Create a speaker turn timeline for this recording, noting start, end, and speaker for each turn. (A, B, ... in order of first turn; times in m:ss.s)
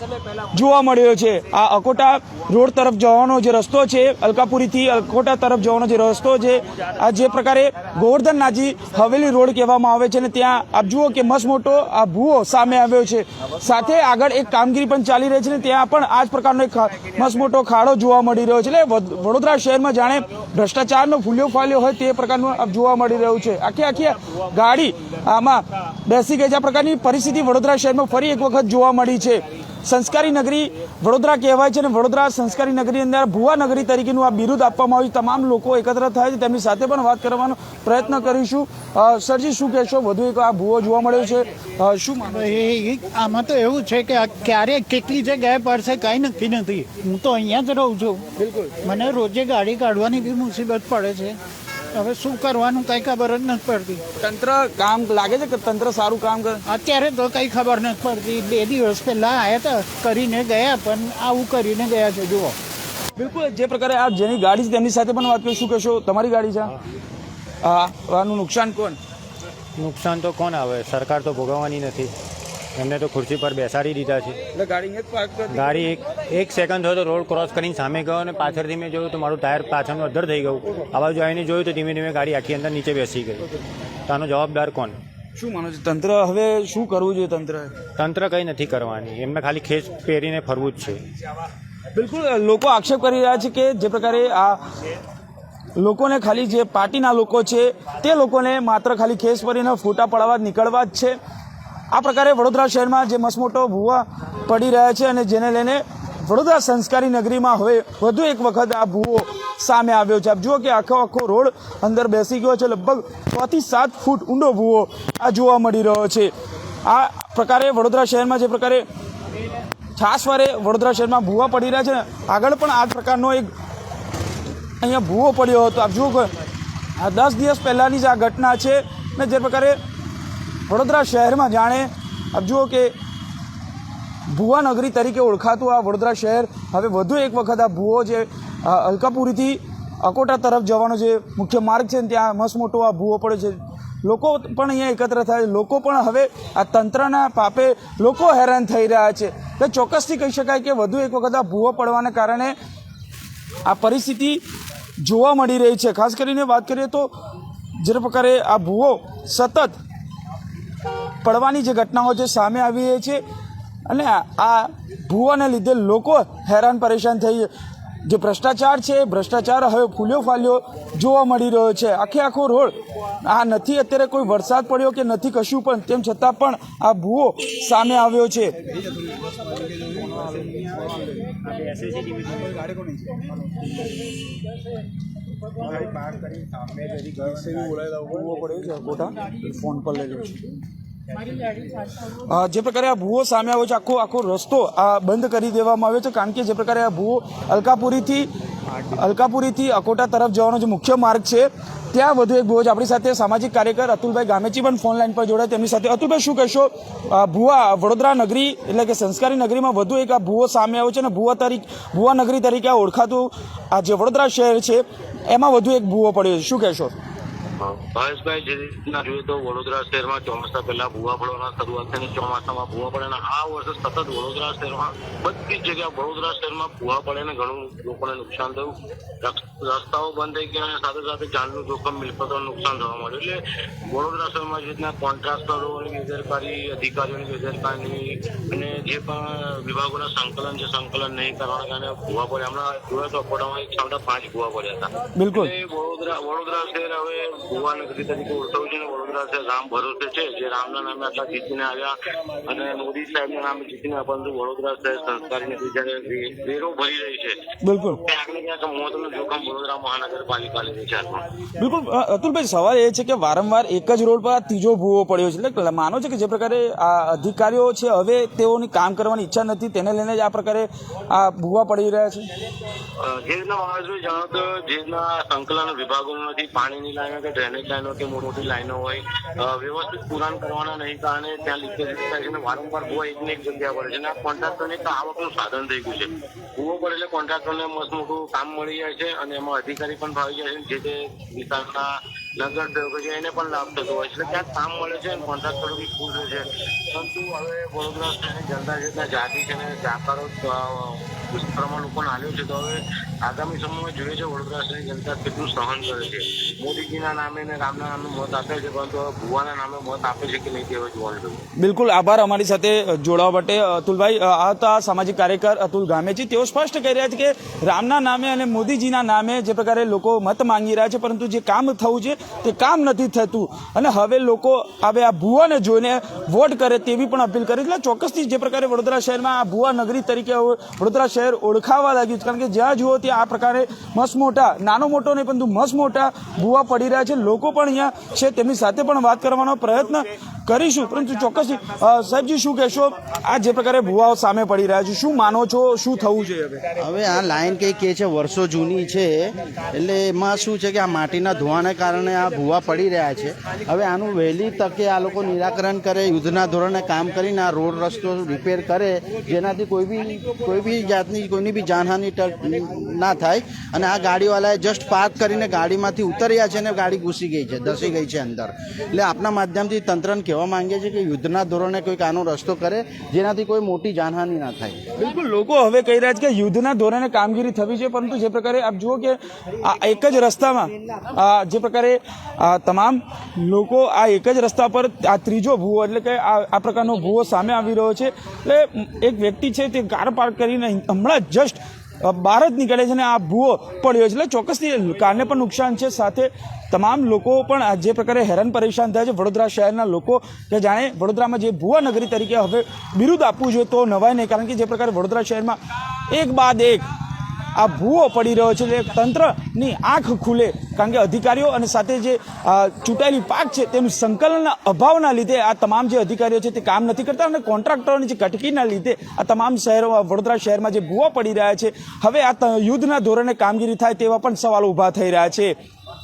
0:00.5-0:42.4 A
0:42.3-0:48.3 B
0:48.4-0:48.7 A
0:48.8-0:51.4 B
0:51.9-0:54.0 B
0:54.2-0:56.6 A
0:56.7-1:02.6 B
1:03.2-1:06.8 A
1:07.6-1:09.0 A
1:09.8-1:12.1 C
1:12.8-1:14.4 C
1:14.5-1:15.7 A
1:15.5-1:23.5 C
1:24.1-1:25.0 C
1:25.4-1:27.7 A
1:28.0-1:31.0 C
1:31.9-1:34.6 A
1:35.8-1:41.2 A
1:41.9-1:56.3 A
1:56.8-1:58.8 A
2:00.0-2:03.5 A
2:04.8-2:06.3 A
2:07.0-2:09.8 A
2:10.7-2:12.9 A
2:14.3-2:32.5 A
2:33.6-2:34.4 A
2:35.0-2:37.1 A
2:37.8-2:39.8 A
2:41.2-2:43.2 A
2:43.9-2:47.5 A
2:48.0-2:58.5 A
3:00.1-3:00.4 A
3:07.2-3:10.4 A
3:12.0-3:18.3 A
3:18.8-3:36.9 A
3:37.6-4:11.9 D
4:05.2-4:05.5 A
4:12.4-4:17.4 D
4:17.6-4:18.0 A
4:17.9-4:21.2 D
4:21.6-4:32.3 A
4:33.0-4:51.9 D
4:52.4-5:11.4 D
5:11.6-5:46.6 A
5:46.8-6:14.8 E
6:15.0-6:45.6 A
6:46.1-6:46.8 A
6:47.6-7:05.5 A